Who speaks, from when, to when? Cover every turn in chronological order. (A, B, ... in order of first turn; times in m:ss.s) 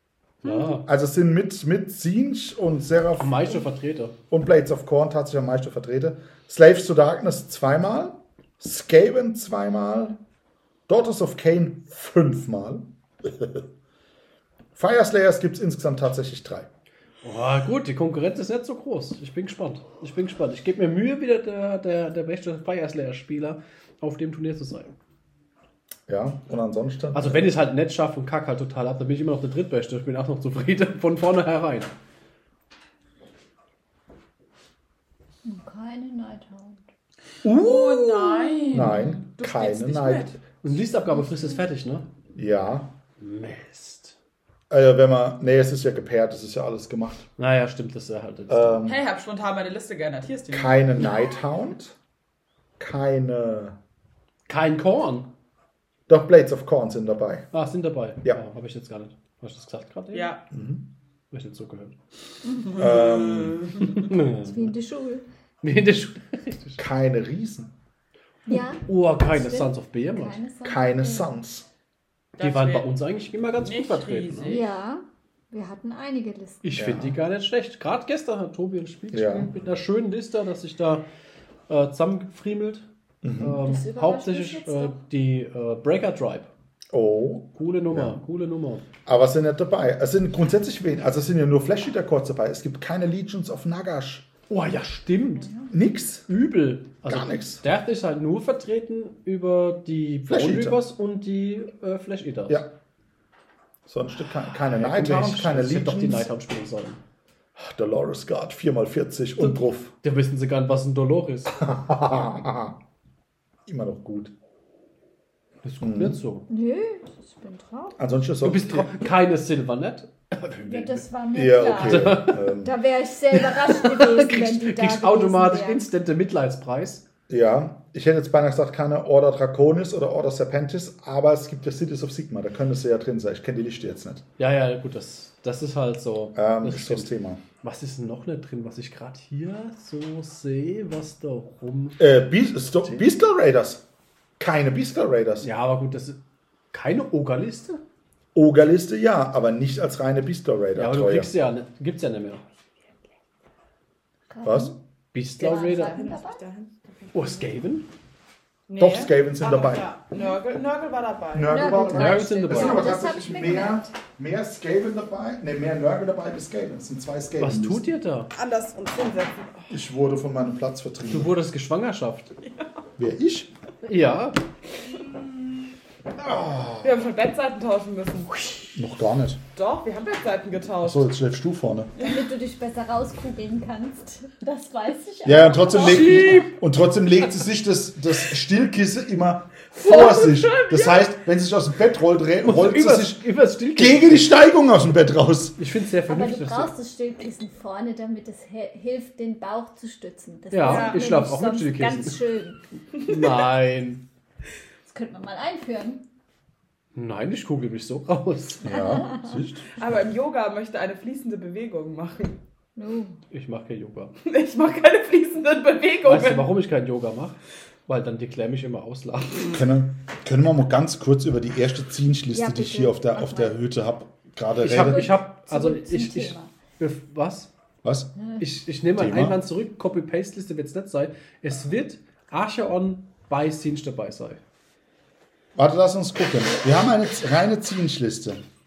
0:00.4-0:00.8 A
0:00.5-0:00.7 B
0:00.8-0:03.7 C
0:03.2-0:04.1 A
0:04.3-0:10.2 C
0:10.9-0:13.6 C
0:14.8-0:16.7 C
0:17.2-0:24.9 A
0:26.1-0:27.5 C
0:27.1-0:31.9 A
0:35.4-0:36.8 B
0:37.4-0:40.4 C
0:37.5-0:40.4 D
0:40.6-0:42.1 A
0:42.4-0:42.9 C
0:43.2-0:44.1 A
0:44.7-0:47.3 C
0:47.4-0:48.8 A
0:48.5-0:49.0 C
0:48.9-0:50.9 D
0:50.5-0:52.0 C
0:52.8-0:53.8 C
0:54.5-0:55.3 A
0:56.1-0:57.5 C
0:57.5-1:00.3 A
1:00.1-1:00.4 D
1:00.5-1:00.9 C
1:01.3-1:02.0 A
1:02.7-1:03.9 D
1:02.8-1:03.8 C
1:03.8-1:04.7 A
1:04.0-1:05.2 B
1:05.6-1:06.8 A
1:06.8-1:07.7 C
1:08.5-1:11.3 B
1:08.8-1:10.4 A
1:10.6-1:11.7 C
1:12.4-1:12.9 D
1:12.4-1:14.6 A
1:13.6-1:14.7 D
1:14.5-1:16.6 B
1:16.6-1:21.0 A
1:16.8-1:17.2 C
1:19.1-1:19.5 C
1:21.7-1:22.9 A
1:23.2-1:23.6 C
1:23.4-1:26.5 A
1:23.6-1:25.0 B
1:26.9-1:28.2 C
1:27.6-1:28.8 A
1:29.1-1:34.3 C
1:34.5-1:35.7 A
1:35.7-1:36.3 C
1:36.3-1:42.6 A
1:37.0-1:37.6 C
1:40.3-1:40.8 C
1:43.9-1:46.3 C
1:44.7-1:47.0 A
1:47.6-1:49.9 C
1:49.4-1:51.6 A
1:51.5-1:52.8 C
1:53.7-1:54.3 C
1:55.6-1:56.5 A
1:55.8-1:56.2 C
1:56.5-1:58.0 B
1:58.0-1:59.0 C
1:58.4-2:01.1 A
2:00.7-2:05.8 B
2:01.3-2:02.8 C
2:01.7-2:02.4 A
2:03.3-2:07.0 A
2:07.3-2:14.2 C
2:14.4-2:17.1 A
2:16.4-2:17.4 C
2:17.6-2:22.0 A
2:22.0-2:23.8 C
2:24.4-2:25.5 C
2:25.4-2:26.2 A
2:26.7-2:27.8 A
2:28.3-2:31.3 C
2:30.8-2:32.4 A
2:34.3-2:34.7 B
2:34.4-2:34.8 C
2:35.1-2:36.0 A
2:35.4-2:36.4 B
2:35.4-2:37.4 D
2:37.1-2:37.9 A
2:38.7-2:41.7 D
2:38.8-2:39.9 C
2:41.3-2:47.9 C
2:41.4-2:43.9 B
2:41.9-2:42.9 A
2:47.4-2:48.3 A
2:48.3-2:49.7 D
2:49.7-2:51.3 C
2:51.1-2:52.3 A
2:53.0-2:53.5 C
2:53.8-2:54.4 A
2:56.2-2:57.0 C
2:56.8-2:58.6 D
2:58.7-2:59.4 C
2:59.6-3:01.1 D
3:00.8-3:01.9 C
3:02.0-3:02.3 D
3:02.0-3:06.4 B
3:05.2-3:15.6 C
3:05.8-3:06.5 A
3:09.7-3:11.1 D
3:12.4-3:14.3 A
3:15.6-3:16.7 A
3:16.1-3:22.6 B
3:20.5-3:22.2 A
3:20.6-3:21.0 D
3:23.0-3:24.0 A
3:24.8-3:26.0 B
3:27.0-3:28.8 A
3:28.6-3:29.7 C
3:28.7-3:29.3 B
3:29.7-3:32.4 D
3:32.8-3:33.2 B
3:33.3-3:34.1 A
3:34.2-3:36.5 D
3:36.0-3:39.6 A
3:39.5-3:45.2 C
3:42.3-3:43.5 B
3:44.6-3:47.5 A
3:44.7-3:46.5 B
3:47.8-3:48.2 C
3:48.4-3:54.4 A
3:49.0-3:49.4 C
3:55.6-3:58.4 C